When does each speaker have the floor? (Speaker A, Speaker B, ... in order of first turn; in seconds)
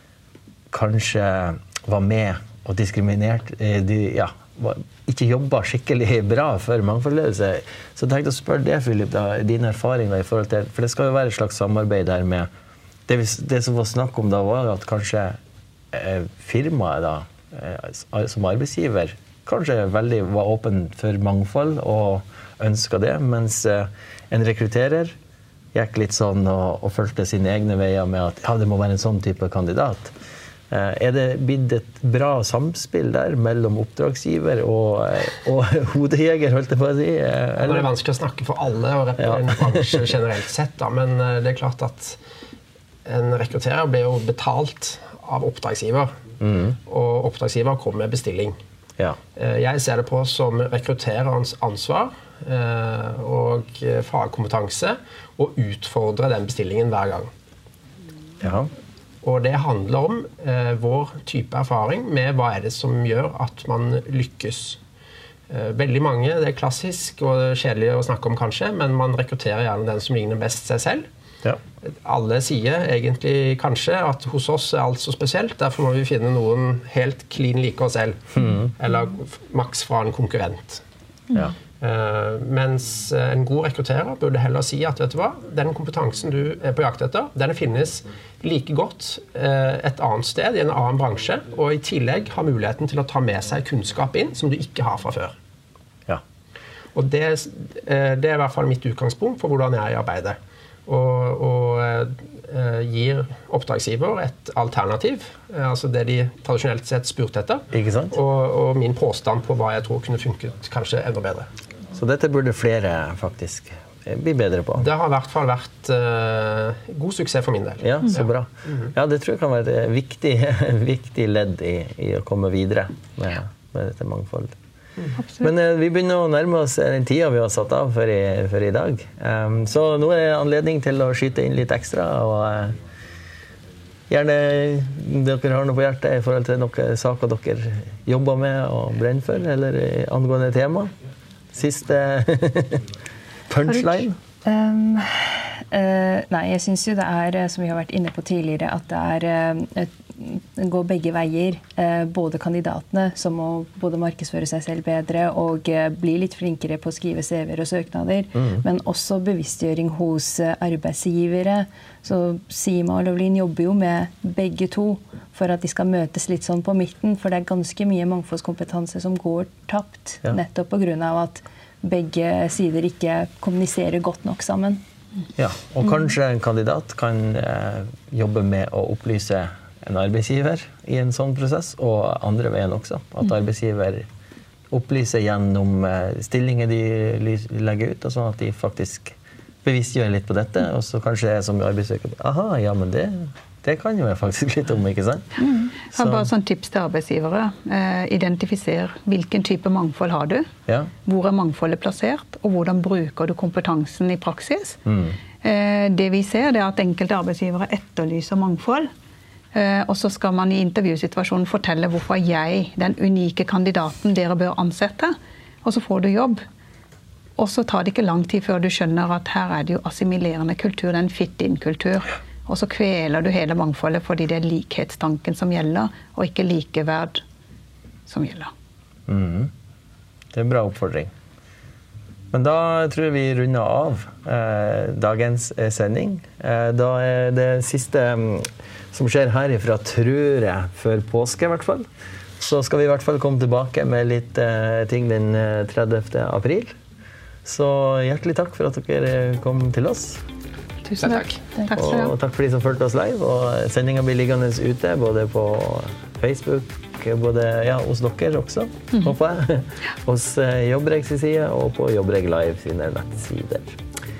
Speaker A: 0.7-12.5, 13.1-15.4, 15.9-25.1, 25.7-30.1, 30.7-37.9, 39.2-40.1, 46.4-46.8, 58.4-58.7, 78.4-78.7, 107.7-108.2, 111.9-114.9, 117.8-124.5, 125.4-132.8, 134.1-140.9, 141.5-142.8, 143.5-144.2, 158.3-158.6, 175.4-184.1, 184.7-196.3, 200.7-200.9, 204.9-205.2, 229.1-229.5, 230.3-231.1, 232.3-241.9, 242.4-246.8, 247.4-250.2, 251.7-263.8
Speaker B: 37.6-42.2, 43.0-46.1, 46.9-48.6, 49.4-57.3, 59.2-64.8, 65.5-71.1, 71.9-80.8, 81.8-95.3, 97.0-111.5, 114.8-118.9, 251.0-251.3
Speaker C: 125.2-125.5, 195.4-200.5, 201.1-204.8, 205.4-208.9, 209.5-216.4, 217.4-227.2, 228.1-228.5, 250.8-252.2
Speaker D: 144.4-174.8